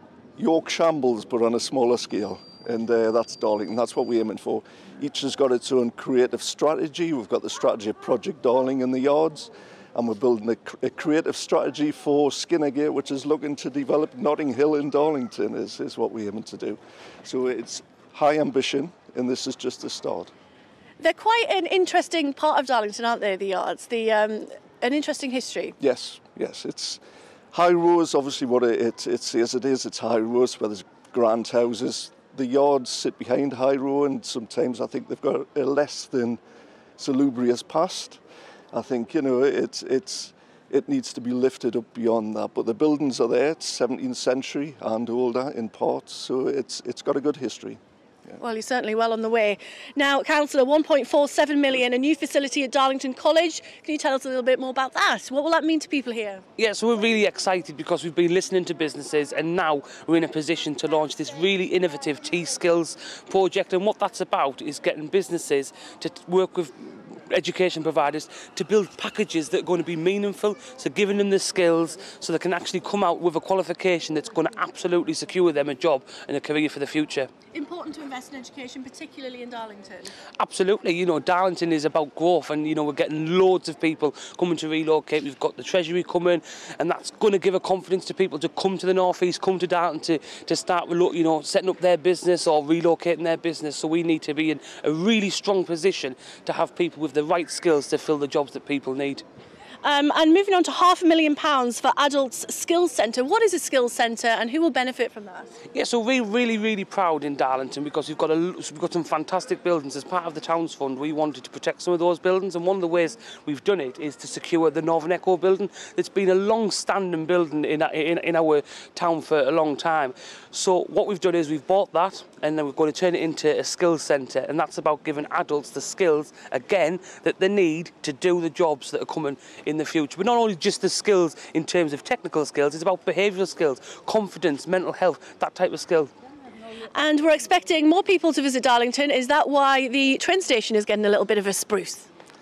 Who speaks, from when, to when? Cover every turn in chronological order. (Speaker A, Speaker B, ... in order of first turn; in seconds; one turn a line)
Speaker A: 0.4-20.3
Speaker B: 21.0-25.8
Speaker A: 25.8-27.0
Speaker A: 27.5-36.4
Speaker A: 37.0-38.2
Speaker A: 38.7-48.4
Speaker B: 48.4-56.4
Speaker C: 56.6-77.3
Speaker B: 77.5-80.1
Speaker C: 80.4-99.2
Speaker B: 99.8-105.5
Speaker C: 105.7-136.1
Speaker B: 136.9-142.1